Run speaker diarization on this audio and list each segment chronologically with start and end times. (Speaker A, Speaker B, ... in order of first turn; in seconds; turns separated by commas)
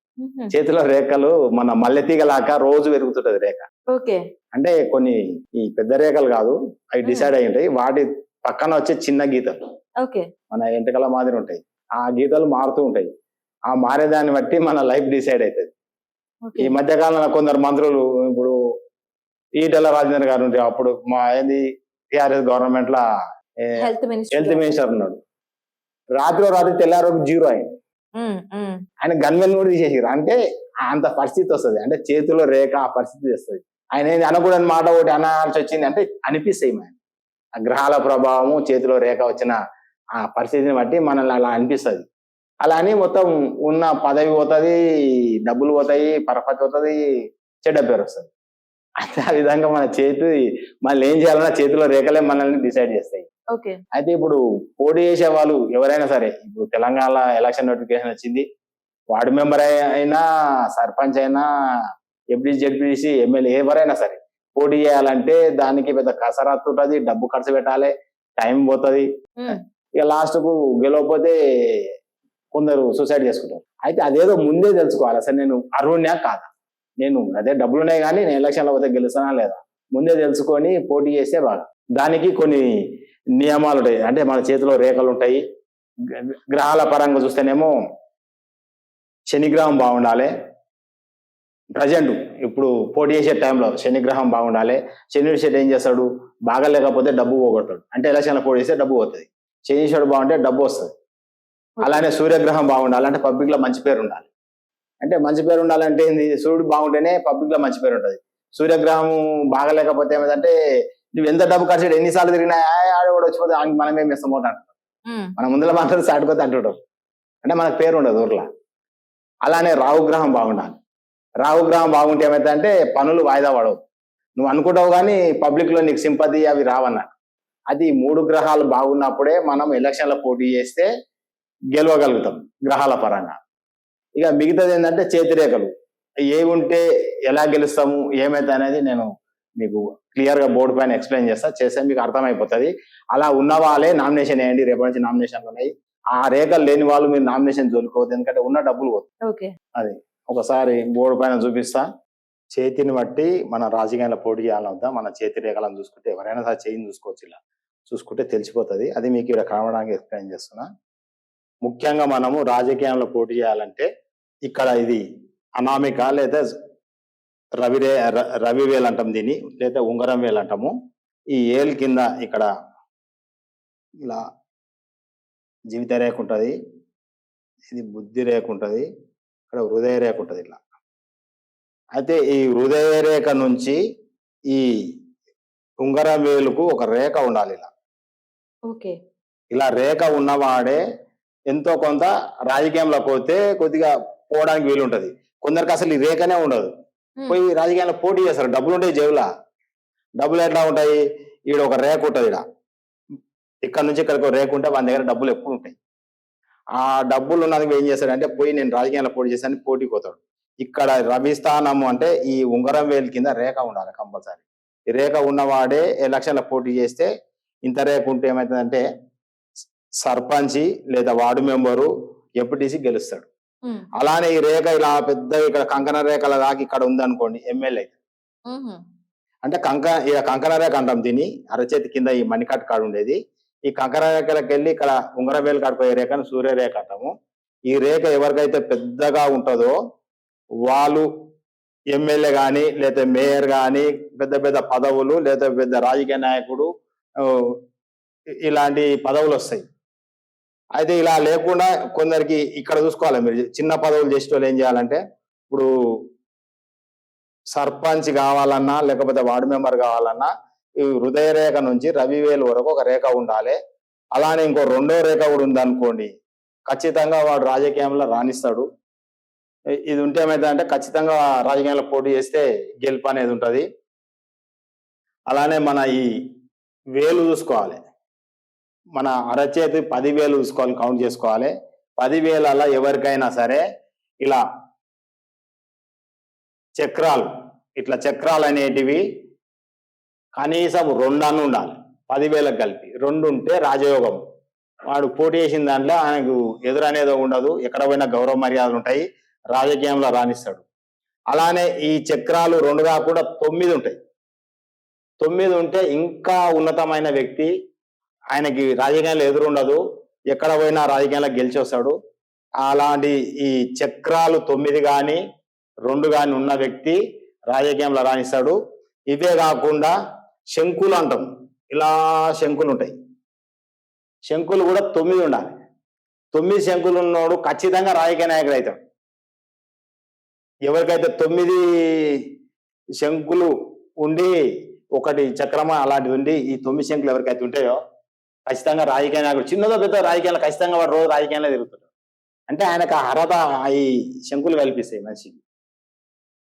Speaker A: 0.2-0.5, Speaker B: 0.5-3.7, Speaker A: 3.9-4.2, Speaker B: 4.5-9.6, Speaker A: 10.0-10.3, Speaker B: 10.5-13.1, Speaker B: 13.7-15.7, Speaker A: 16.4-16.7, Speaker B: 16.6-18.5, Speaker B: 19.6-23.0, Speaker A: 23.8-24.6, Speaker B: 24.3-25.2, Speaker B: 26.2-27.7, Speaker A: 28.1-28.8, Speaker B: 29.0-30.4, Speaker B: 30.9-36.9, Speaker B: 37.6-39.5, Speaker B: 40.2-42.0, Speaker B: 42.6-44.8, Speaker B: 45.5-47.0, Speaker B: 47.6-48.3, Speaker B: 49.0-50.3, Speaker B: 50.8-53.3, Speaker A: 53.5-53.8, Speaker B: 53.9-58.4, Speaker B: 59.1-61.5, Speaker B: 62.3-71.8, Speaker B: 72.5-76.5, Speaker B: 77.0-82.6, Speaker B: 83.4-85.4, Speaker B: 86.5-87.7, Speaker B: 89.3-90.3, Speaker B: 91.8-100.9, Speaker B: 101.8-104.3, Speaker B: 105.0-110.5, Speaker B: 111.2-114.7, Speaker A: 115.1-115.3, Speaker B: 115.4-116.8, Speaker B: 117.4-118.5, Speaker B: 119.5-120.8, Speaker B: 121.4-123.8, Speaker B: 124.4-127.1, Speaker B: 127.7-130.9, Speaker B: 131.7-133.3, Speaker B: 134.2-135.7, Speaker B: 136.3-139.1, Speaker B: 139.6-149.1, Speaker A: 149.2-149.5, Speaker B: 149.8-151.8, Speaker B: 152.5-160.7, Speaker B: 161.6-163.9, Speaker B: 164.5-165.0, Speaker B: 165.6-166.4, Speaker B: 167.6-170.7, Speaker B: 171.3-172.5, Speaker B: 175.7-176.5, Speaker B: 177.7-178.8, Speaker B: 179.5-180.6, Speaker B: 182.0-183.8, Speaker B: 185.8-187.7, Speaker A: 188.7-188.9, Speaker B: 189.5-190.8, Speaker B: 191.5-196.7, Speaker B: 197.3-199.2, Speaker B: 200.2-201.0, Speaker B: 201.5-202.4, Speaker B: 203.7-205.8, Speaker B: 206.8-214.4, Speaker B: 214.9-217.1, Speaker B: 217.7-218.8, Speaker B: 220.0-221.9, Speaker B: 222.4-223.3, Speaker B: 224.0-227.9, Speaker A: 228.5-228.8, Speaker B: 229.4-233.2, Speaker B: 233.7-237.1, Speaker B: 237.7-239.8, Speaker B: 240.7-241.1, Speaker B: 241.9-246.7, Speaker B: 247.2-247.6, Speaker B: 248.4-249.6, Speaker B: 250.8-255.7, Speaker B: 257.5-260.3, Speaker B: 260.9-263.6, Speaker B: 264.1-266.1, Speaker B: 266.7-268.6, Speaker B: 269.9-273.6, Speaker B: 275.3-276.1, Speaker B: 277.0-277.8, Speaker B: 278.9-283.6, Speaker B: 286.8-289.0, Speaker B: 290.4-294.2, Speaker B: 294.9-300.6, Speaker B: 301.3-304.0, Speaker B: 305.2-307.5, Speaker B: 308.3-311.9, Speaker B: 312.6-315.2, Speaker B: 315.9-317.0, Speaker B: 317.5-318.6, Speaker B: 319.1-319.9, Speaker B: 320.5-322.9, Speaker B: 324.3-325.4, Speaker B: 326.3-328.8, Speaker B: 330.7-332.3, Speaker B: 333.0-334.3, Speaker B: 334.9-337.8, Speaker B: 338.5-341.9, Speaker B: 342.5-345.4